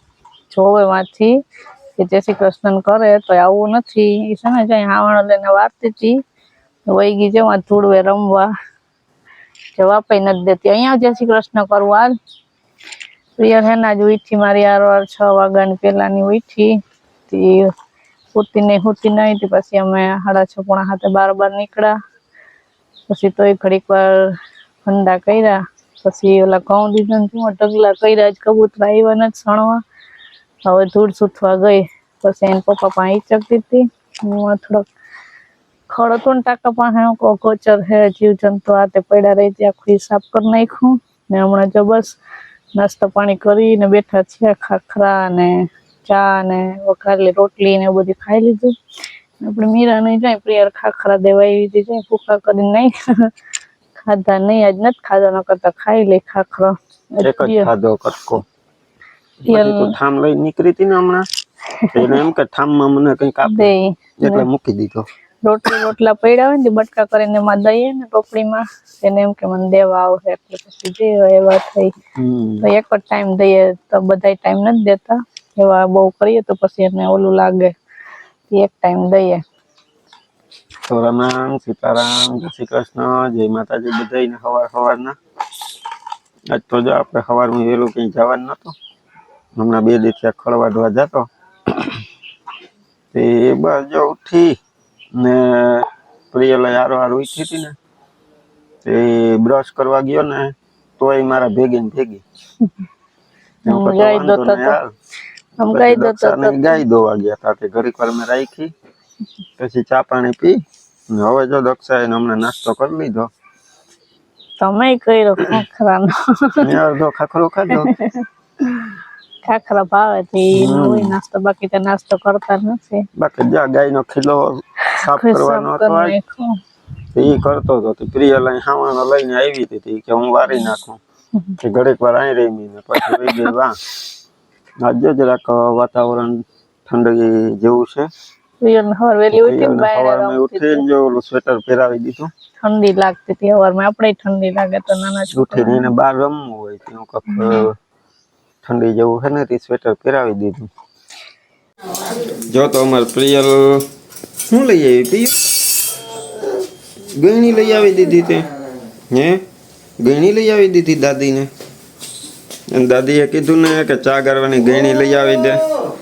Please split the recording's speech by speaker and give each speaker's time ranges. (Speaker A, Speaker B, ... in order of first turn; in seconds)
Speaker A: 0.5-1.4, 2.0-6.2, 6.9-8.5, 9.8-12.1, 13.4-16.8, 17.3-17.7, 18.3-21.9, 23.1-24.3, 24.8-29.8, 30.6-34.9, 35.9-42.1, 42.8-48.7, 49.4-53.3, 54.0-57.7, 59.5-59.9, 61.8-62.2, 63.4-64.5, 65.4-71.9, 72.6-77.7, 78.5-79.4, 103.7-104.8, 105.6-106.8, 114.6-116.6, 117.7-123.0, 124.9-126.5, 133.0-133.5, 138.6-140.8, 142.6-145.8, 147.3-147.7
Speaker B: 57.2-58.4, 59.4-61.3, 61.9-65.0, 72.2-72.7, 80.9-85.2, 86.5-88.7, 89.5-91.8, 93.1-94.6, 95.1-97.7, 98.8-102.2, 103.7-104.9, 105.7-108.7, 109.6-113.3, 116.6-117.9, 120.5-121.1, 123.2-126.1, 127.1-131.0, 131.6-133.8, 134.8-138.1, 139.3-142.3, 145.3-147.8, 148.6-150.7, 152.5-153.8, 154.5-155.4, 157.2-158.5, 159.1-159.4, 160.0-161.5, 162.7-165.6